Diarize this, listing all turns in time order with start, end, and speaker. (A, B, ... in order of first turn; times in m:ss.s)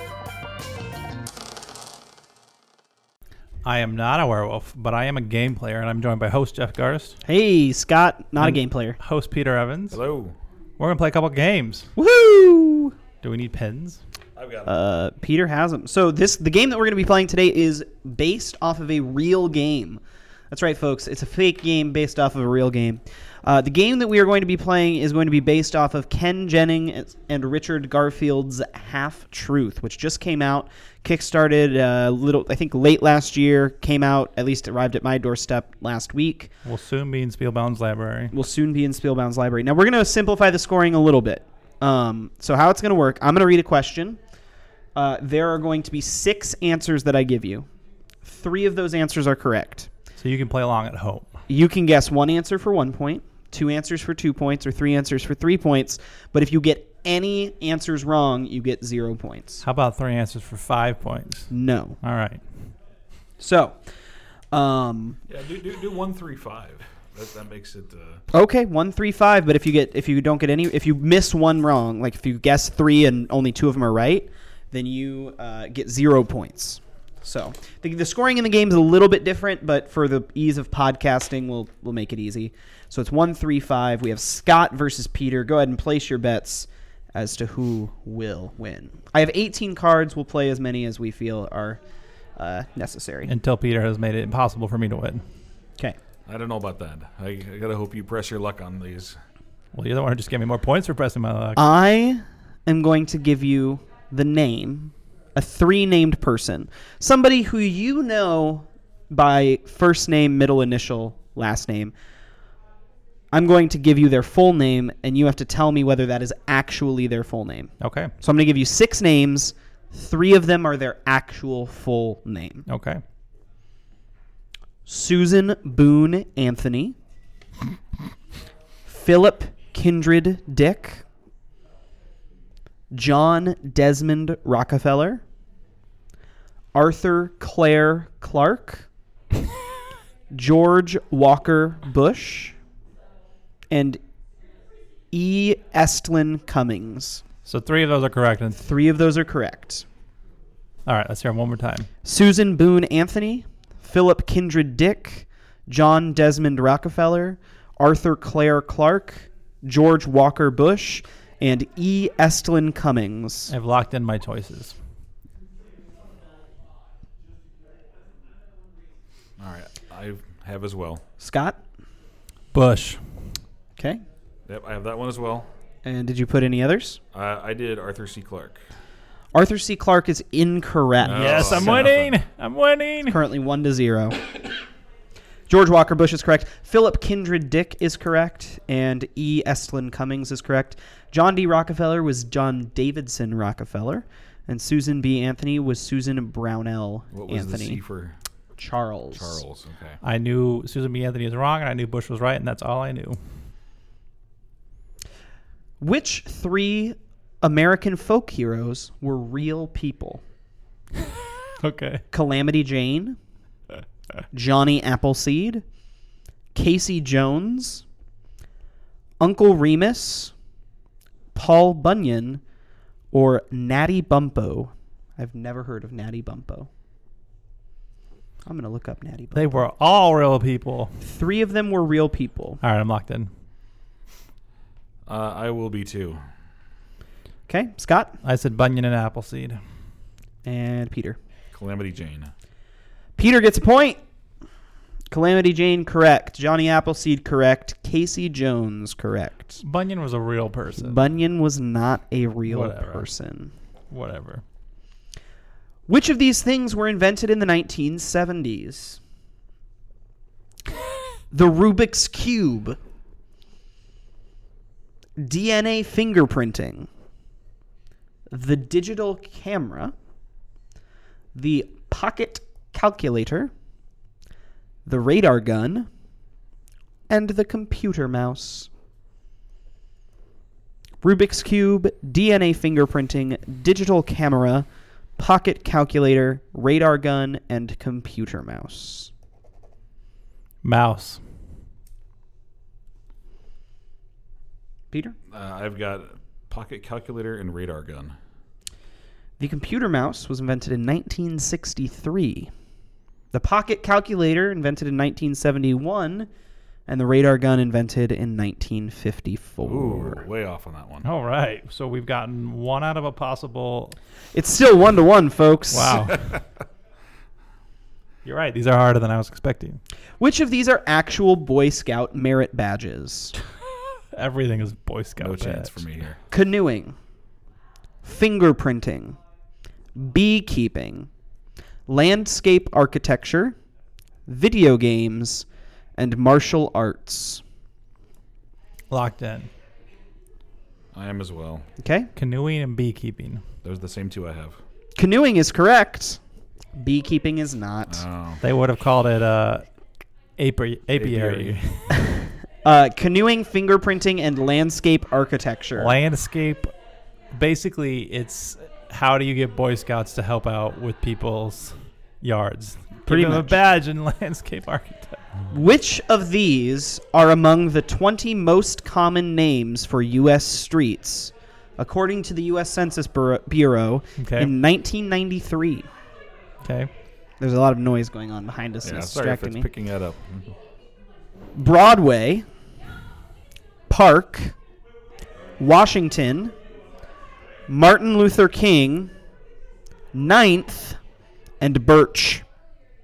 0:03.6-0:07.2 A
0:07.2-0:09.0 B
0:08.4-0:10.0 A
0:09.9-0:10.4 C
0:10.8-0:11.9 A
0:12.0-0:13.0 B
0:13.2-0:14.0 A
0:14.4-0:14.7 C
0:14.7-0:36.5 B
0:36.6-0:38.3 A
0:38.3-0:44.2 B
0:45.0-0:47.7 B
0:48.2-0:49.9 B
0:50.2-0:51.3 A
0:51.5-0:59.6 B
0:59.6-1:01.5 A
1:01.5-1:02.0 B
1:02.0-1:02.4 A
1:03.4-1:03.8 B
1:04.5-1:05.2 B
1:05.3-1:08.2 C
1:08.3-1:31.8 B
1:32.4-1:33.3 B
1:33.3-1:35.2 A
1:36.2-1:39.2 C
1:39.7-1:41.6 A
1:41.6-1:51.9 B
1:53.3-2:02.6 B
1:57.8-1:58.1 A
2:02.7-2:03.0 A
2:04.8-2:07.0 B
2:08.8-2:11.0 B
2:12.9-2:15.2 B
2:16.7-2:18.9 B
2:20.3-2:22.6 B
2:23.7-2:24.0 B
2:25.1-2:27.2 B
2:27.4-2:28.6 A
2:28.6-2:29.8 B
2:30.8-2:31.9 A
2:32.0-2:43.5 B
2:43.5-2:44.8 A
2:49.4-2:51.0 C
2:51.2-2:51.6 B
2:52.5-2:53.0 A
2:53.8-2:54.0 B
2:54.5-2:55.5 C
2:55.8-2:57.0 B
2:57.1-2:58.6 C
2:59.3-3:01.8 B
3:01.0-3:02.2 C
3:01.1-3:03.2 A
3:03.1-3:04.2 B
3:05.5-3:17.8 B
3:17.1-3:18.2 C
3:18.6-3:19.4 B
3:19.2-3:20.0 C
3:20.0-3:23.2 A
3:25.8-3:30.2 B
3:31.6-3:32.0 A
3:32.1-3:33.2 B
3:34.3-3:35.6 B
3:36.5-3:37.8 B
3:39.2-3:40.3 B
3:41.3-3:42.4 B
3:43.1-3:46.7 B
3:48.5-3:49.6 B
3:49.3-3:51.0 A
3:51.0-3:52.6 B
3:52.6-3:53.3 A
3:55.1-3:56.2 C
3:57.5-3:58.2 B
3:58.2-3:59.6 A
4:00.4-4:01.2 B
4:01.5-4:02.3 C
4:03.2-4:04.0 B
4:05.1-4:09.6 B
4:09.6-4:11.0 A
4:10.8-4:13.5 B
4:12.5-4:13.1 A
4:13.9-4:14.4 A
4:15.9-4:19.0 B
4:21.3-4:22.8 B
4:25.2-4:26.9 B
4:28.3-4:29.9 B
4:31.4-4:33.5 B
4:34.9-4:35.9 B
4:37.1-4:38.7 B
4:41.0-4:44.6 B
4:45.2-4:49.1 B
4:50.6-4:51.2 A
4:55.3-4:58.2 C
4:59.4-5:02.5 B
5:03.3-5:06.3 B
5:06.9-5:10.2 B
5:09.6-5:11.1 C
5:11.0-5:14.0 A
5:14.3-5:16.1 B
5:15.7-5:16.3 A
5:18.2-5:19.8 A
5:20.2-5:23.4 B
5:24.1-5:25.8 A
5:25.2-5:26.2 C
5:26.3-5:27.0 B
5:28.0-5:29.2 B
5:30.0-5:31.1 B
5:31.9-5:33.6 B
5:34.3-5:35.5 B
5:36.0-5:37.4 B
5:38.9-5:39.5 A
5:40.9-5:41.7 C
5:41.8-5:42.1 B
5:42.2-5:43.4 A
5:43.6-5:44.6 C
5:45.0-5:46.2 B
5:46.8-5:48.0 B
5:47.9-5:48.4 C
5:48.4-5:49.6 A
5:50.4-5:51.9 A
5:51.0-5:51.6 C
5:52.6-5:56.0 B
5:55.8-5:56.7 A
5:57.3-6:05.2 A
6:03.1-6:03.6 B
6:05.5-6:15.9 B
6:14.2-6:14.5 A
6:16.6-6:16.9 A
6:17.4-6:19.7 B
6:18.8-6:20.5 C
6:21.5-6:22.5 B
6:23.9-6:24.5 B
6:25.6-6:26.5 B
6:27.7-6:29.1 B
6:30.1-6:31.0 B
6:31.6-6:32.4 B